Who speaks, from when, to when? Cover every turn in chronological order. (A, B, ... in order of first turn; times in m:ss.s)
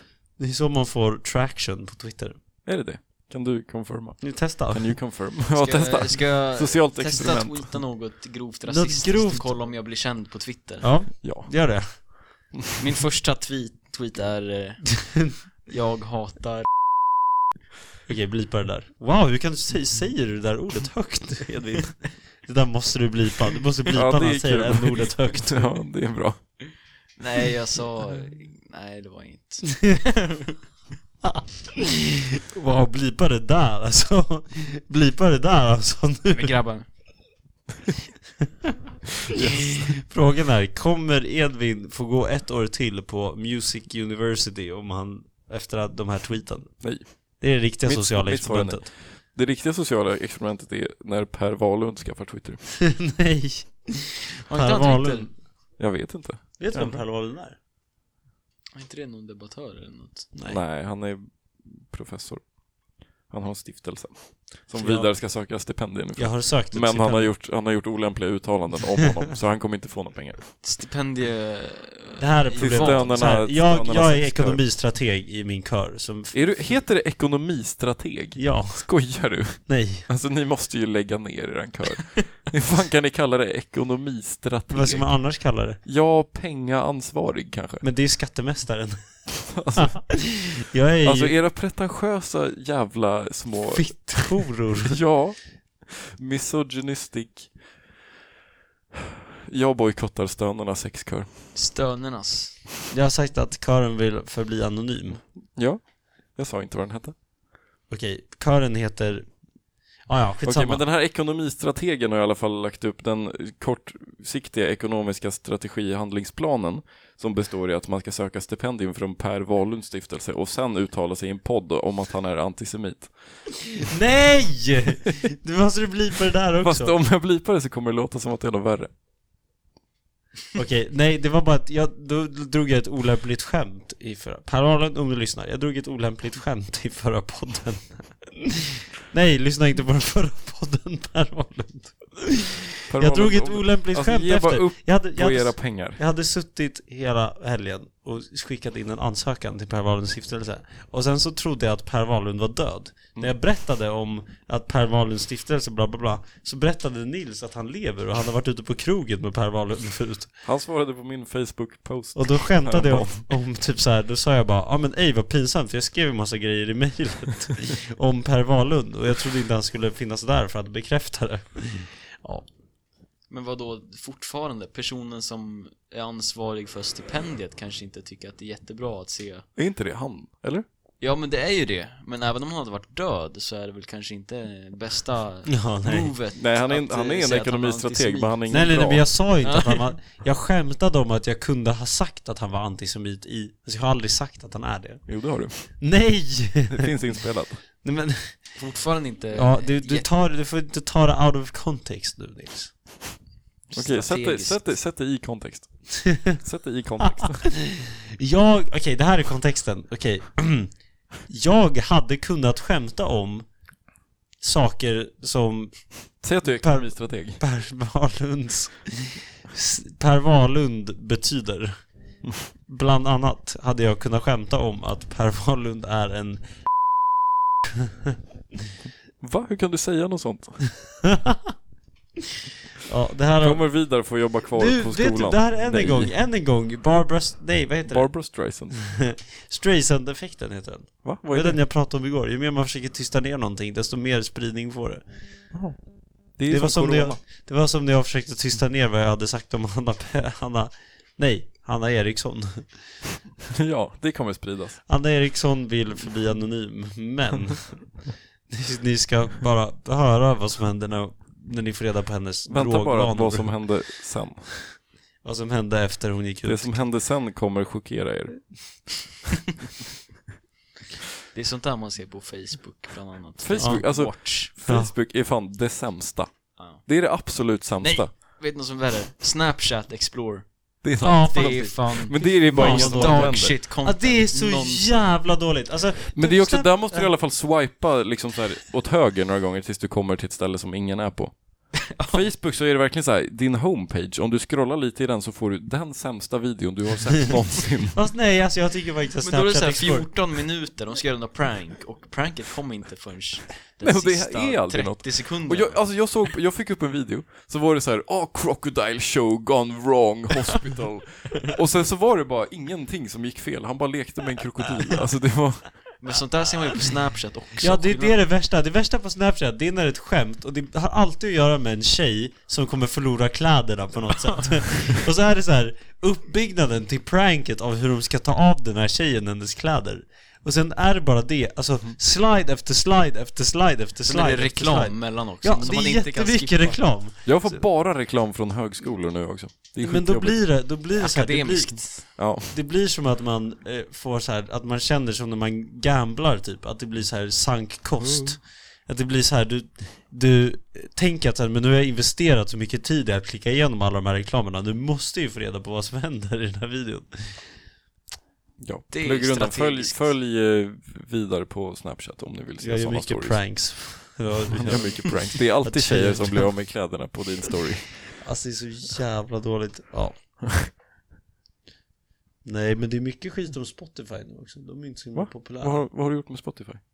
0:00.4-0:02.4 A
0:02.6-0:07.8 B
0:04.2-0:05.0 A
0:05.6-0:10.9 C
0:08.7-0:09.5 A
0:10.8-0:11.9 A
0:11.2-0:12.0 B
0:12.8-0:16.7 C
0:15.1-0:15.4 A
0:18.1-0:25.7 A
0:23.9-0:26.4 B
0:27.2-0:30.6 C
0:31.2-0:36.6 A
0:36.3-0:36.9 C
0:39.3-0:40.0 B
0:39.3-0:46.8 A
0:46.8-0:47.1 B
0:47.4-0:48.9 A
0:47.8-0:52.6 B
0:52.8-0:55.3 A
0:54.5-0:55.3 C
0:55.8-0:57.0 B
0:56.6-0:57.6 A
0:58.8-1:00.3 C
1:00.4-1:00.6 A
1:00.5-1:02.4 B
1:03.3-1:10.6 B
1:04.8-1:05.1 A
1:06.2-1:07.3 A
1:10.6-1:13.2 C
1:12.2-1:16.4 A
1:12.6-1:14.6 B
1:16.3-1:25.1 B
1:18.4-1:18.9 A
1:19.7-1:20.1 A
1:24.7-1:25.8 A
1:25.8-1:27.8 B
1:27.8-1:29.0 A
1:29.4-1:30.3 B
1:29.8-1:31.4 A
1:31.0-1:37.5 B
1:33.7-1:35.0 A
1:39.5-1:41.5 B
1:41.5-1:42.6 C
1:42.9-1:45.2 A
1:45.6-1:45.8 B
1:46.4-1:47.2 B
1:47.9-1:49.3 A
1:50.1-1:50.8 A
1:50.4-2:03.8 B
2:03.8-2:07.0 A
2:06.6-2:08.9 B
2:10.5-2:40.3 A
2:22.9-2:26.0 B
2:40.4-2:43.3 B
2:42.2-2:52.5 A
2:53.3-2:59.5 C
2:59.6-3:00.6 B
3:01.0-3:08.4 C
3:05.5-3:06.1 A
3:06.4-3:09.1 B
3:08.5-3:15.0 A
3:09.4-3:09.9 C
3:15.1-3:15.8 B
3:15.8-3:16.9 A
3:16.7-3:17.6 B
3:17.8-3:18.5 A
3:18.6-3:20.1 C
3:19.3-3:22.7 A
3:23.7-3:27.5 B
3:23.7-3:24.7 C
3:27.2-3:30.7 A
3:31.3-3:33.5 A
3:34.4-3:35.9 A
3:36.2-3:37.4 B
3:36.4-3:41.8 A
3:42.7-3:46.6 A
3:49.2-3:50.7 B
3:51.0-3:51.5 A
3:52.8-3:53.7 A
3:53.4-3:56.1 B
3:54.5-3:58.1 A
3:57.9-3:58.8 B
3:58.7-4:05.0 A
4:01.0-4:01.6 B
4:05.5-4:05.8 B
4:06.4-4:07.2 B
4:06.5-4:12.7 A
4:13.5-4:14.8 B
4:14.9-4:18.0 A
4:18.5-4:23.6 A
4:22.5-4:24.6 B
4:25.2-4:26.8 A
4:26.4-4:28.5 B
4:31.3-4:34.5 C
4:33.4-4:38.2 B
4:33.6-4:33.9 A
4:34.6-4:34.9 A
4:36.6-4:36.9 C
4:37.8-4:40.6 C
4:40.8-4:43.6 B
4:41.0-4:41.8 A
4:41.2-4:45.0 C
4:42.5-4:47.1 A
4:46.1-4:58.0 B
4:51.8-4:52.3 C
4:57.9-5:00.1 A
4:59.2-5:05.9 C
5:03.8-5:16.0 B
5:16.0-5:18.2 C
5:17.6-5:37.6 A
5:34.1-5:36.8 C
5:37.2-5:40.5 B
5:39.8-5:57.4 A
5:41.0-5:42.0 C
5:42.2-5:42.6 B
5:48.0-5:48.4 B
5:58.6-6:03.5 B
5:58.9-6:00.0 C
6:02.6-6:06.5 A
6:04.5-6:08.2 B
6:08.2-6:10.4 A
6:12.4-6:15.8 A
6:15.2-6:16.8 B